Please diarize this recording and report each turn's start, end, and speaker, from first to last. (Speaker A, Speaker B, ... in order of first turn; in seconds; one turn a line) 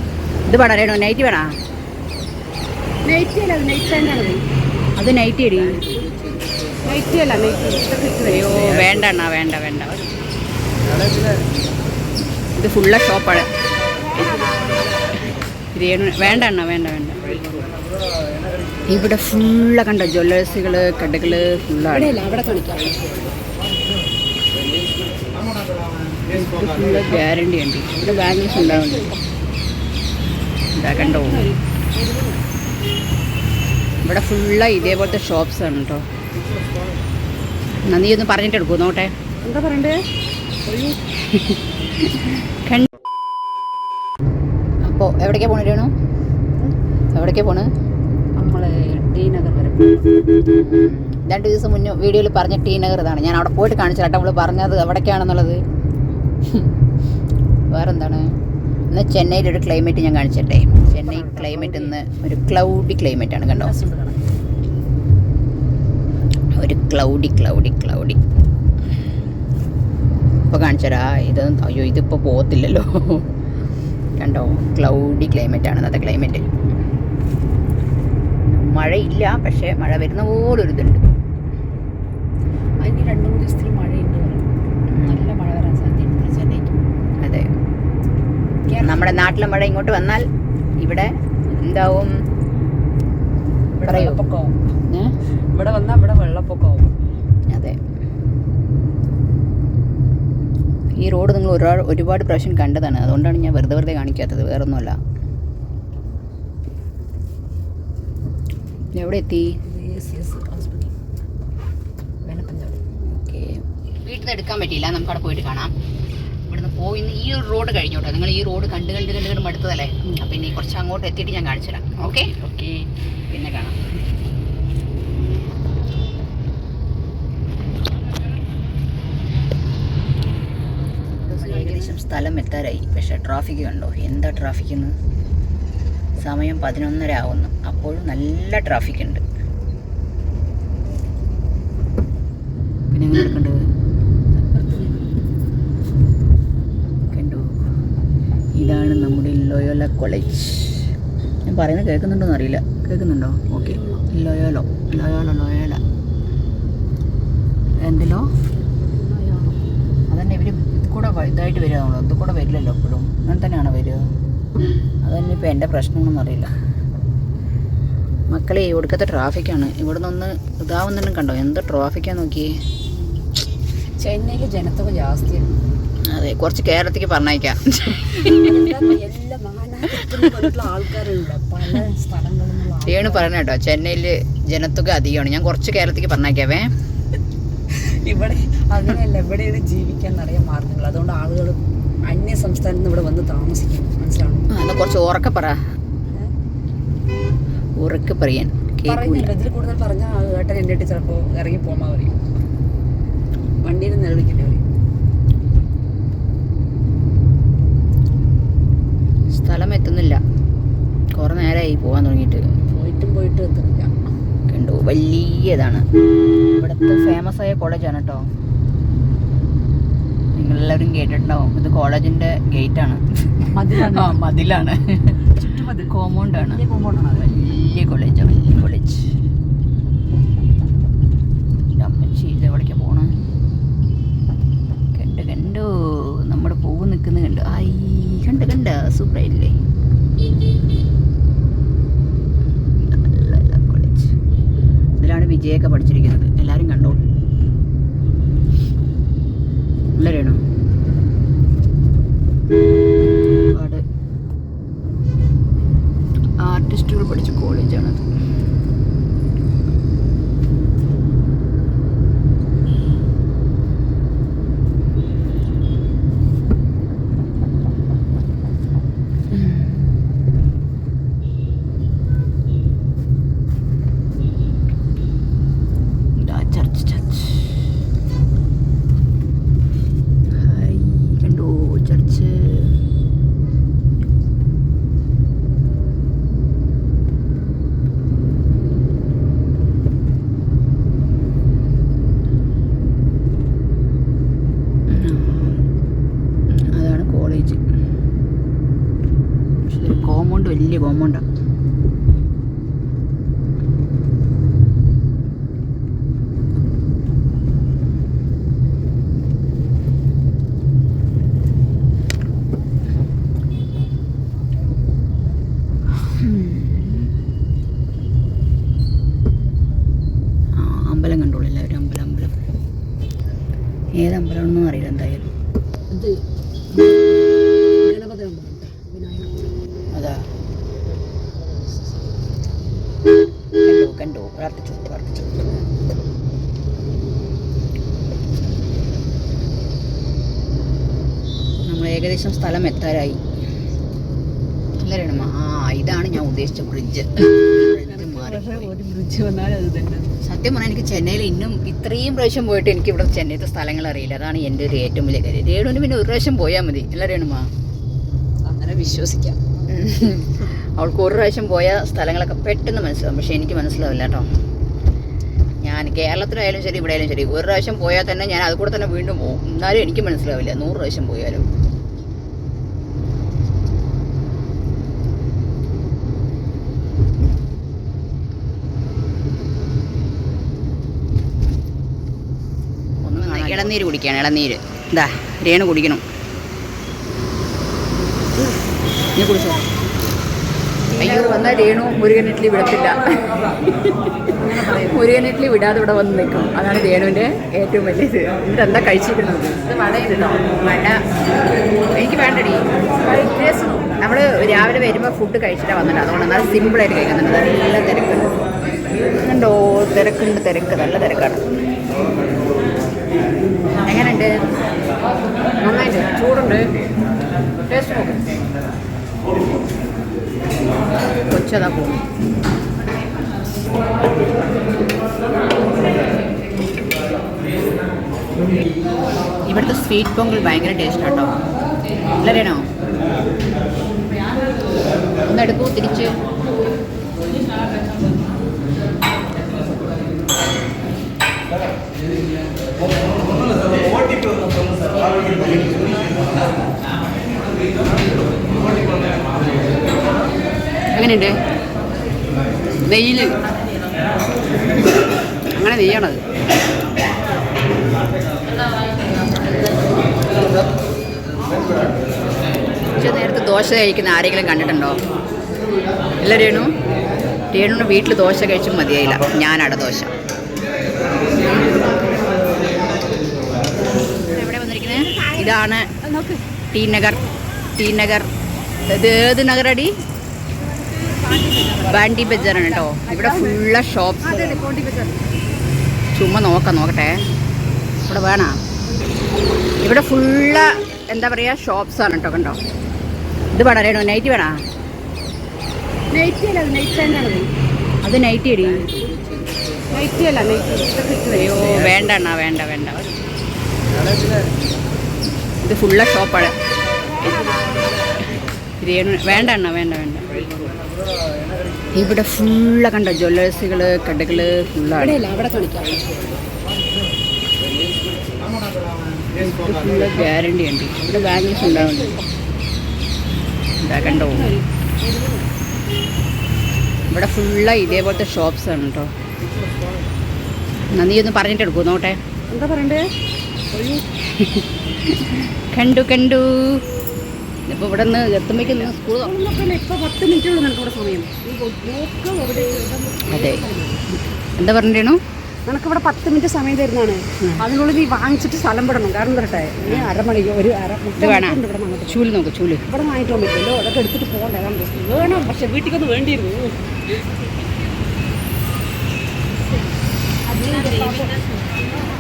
Speaker A: 0.5-1.5
Speaker B: 3.0-4.4
Speaker A: 5.0-5.9
Speaker B: 6.8-8.8
Speaker A: 8.1-9.9
Speaker A: 12.6-13.5
Speaker B: 14.2-14.8
Speaker A: 15.8-17.6
Speaker A: 18.9-22.1
Speaker B: 21.8-23.4
Speaker A: 26.6-29.1
Speaker B: 27.9-29.2
Speaker A: 30.8-31.5
Speaker B: 30.9-32.5
Speaker A: 34.0-36.0
Speaker A: 37.9-39.1
Speaker B: 39.4-40.0
Speaker B: 40.6-41.0
Speaker A: 41.4-42.9
Speaker A: 44.8-45.9
Speaker A: 47.1-47.7
Speaker B: 48.4-50.2
Speaker A: 50.5-55.6
Speaker A: 57.7-58.3
Speaker A: 58.9-63.7
Speaker B: 60.9-62.0
Speaker B: 63.5-64.3
Speaker A: 66.5-68.2
Speaker A: 70.5-73.3
Speaker A: 74.2-76.5
Speaker A: 78.5-81.0
Speaker B: 82.8-84.5
Speaker A: 84.9-85.3
Speaker B: 85.0-86.4
Speaker A: 86.3-86.7
Speaker A: 87.2-87.5
Speaker B: 88.7-89.2
Speaker A: 88.8-90.3
Speaker A: 90.8-92.2
Speaker B: 93.8-94.6
Speaker A: 93.8-94.2
Speaker A: 94.9-95.1
Speaker B: 95.5-97.0
Speaker A: 97.5-97.8
Speaker A: 101.0-105.0
Speaker A: 109.0-109.6
Speaker B: 109.7-110.9
Speaker B: 112.2-112.8
Speaker A: 113.0-115.7
Speaker A: 116.5-123.8
Speaker B: 131.3-131.9
Speaker A: 131.3-135.0
Speaker A: 136.2-139.2
Speaker A: 142.9-143.6
Speaker B: 144.4-145.2
Speaker A: 147.1-147.5
Speaker A: 148.6-150.9
Speaker A: 151.5-155.8
Speaker B: 153.5-154.1
Speaker A: 157.8-158.3
Speaker B: 158.8-159.6
Speaker A: 160.1-164.1
Speaker A: 165.0-166.5
Speaker A: 168.3-172.5
Speaker B: 172.9-173.3
Speaker B: 174.0-175.6
Speaker A: 176.1-178.7
Speaker B: 178.2-183.3
Speaker A: 182.9-186.7
Speaker B: 187.7-194.5
Speaker A: 194.5-195.6
Speaker A: 197.8-199.3
Speaker B: 198.8-202.1
Speaker B: 203.6-204.6
Speaker A: 209.3-210.2
Speaker A: 211.1-212.4
Speaker B: 212.7-213.9
Speaker A: 214.5-215.8
Speaker A: 216.5-218.3
Speaker A: 220.3-225.2
Speaker B: 223.5-224.2
Speaker B: 225.2-227.4
Speaker A: 225.9-226.6
Speaker A: 227.2-229.1
Speaker A: 231.7-233.1
Speaker A: 234.9-239.6
Speaker A: 242.8-244.1
Speaker A: 245.0-247.0
Speaker A: 250.0-250.4
Speaker A: 253.5-253.8
Speaker A: 256.4-258.1
Speaker A: 269.3-269.9
Speaker A: 276.2-277.5
Speaker A: 280.4-282.8
Speaker A: 294.9-295.6
Speaker A: 296.5-297.6
Speaker A: 299.6-301.3
Speaker A: 316.0-317.1
Speaker A: 320.6-322.4
Speaker A: 324.0-325.3
Speaker B: 325.9-326.2
Speaker B: 326.7-329.5
Speaker A: 329.9-330.2
Speaker A: 333.6-335.4
Speaker A: 341.7-343.2
Speaker A: 344.8-348.7
Speaker B: 347.2-350.2
Speaker A: 350.2-357.5
Speaker B: 358.4-359.5
Speaker A: 359.7-364.3
Speaker A: 365.6-371.5
Speaker A: 383.0-386.0
Speaker A: 389.1-389.6
Speaker B: 391.0-391.6
Speaker A: 391.0-393.9
Speaker B: 394.3-395.0
Speaker A: 394.8-399.7
Speaker B: 399.7-400.5
Speaker A: 400.5-401.0
Speaker A: 401.9-408.3
Speaker B: 403.0-403.9
Speaker A: 409.1-411.5
Speaker A: 413.9-414.4
Speaker B: 415.6-416.7
Speaker A: 417.7-418.1
Speaker A: 421.3-422.0
Speaker A: 429.5-431.4
Speaker A: 432.2-432.7
Speaker A: 435.3-436.1
Speaker A: 450.9-451.4
Speaker A: 452.9-453.4
Speaker A: 455.5-456.2
Speaker A: 463.0-465.0
Speaker A: 466.2-466.7
Speaker A: 467.5-470.1
Speaker A: 474.3-476.0
Speaker B: 476.0-476.4
Speaker A: 476.7-477.2
Speaker A: 477.8-478.3
Speaker A: 478.9-479.9
Speaker B: 481.0-483.7
Speaker A: 481.8-484.7
Speaker B: 484.2-485.4
Speaker A: 486.1-487.2
Speaker A: 488.1-488.6
Speaker A: 489.8-492.6
Speaker A: 493.5-494.6
Speaker B: 496.1-497.5
Speaker A: 498.0-499.0
Speaker B: 499.9-501.8
Speaker A: 501.3-503.0
Speaker A: 505.6-506.6
Speaker B: 507.2-507.8
Speaker A: 508.8-510.4
Speaker A: 511.9-515.2
Speaker B: 514.9-516.4
Speaker A: 519.4-522.2
Speaker B: 521.0-522.2
Speaker A: 523.8-524.6
Speaker B: 524.0-525.5
Speaker A: 527.1-529.1
Speaker A: 530.9-532.2
Speaker B: 532.5-533.1
Speaker B: 533.7-534.1
Speaker A: 534.5-536.9
Speaker A: 537.7-539.4
Speaker B: 538.8-544.1
Speaker A: 543.3-543.7
Speaker A: 544.6-545.2
Speaker B: 545.7-552.2
Speaker A: 549.9-550.1
Speaker A: 551.2-552.9
Speaker B: 552.9-557.0
Speaker B: 560.5-561.9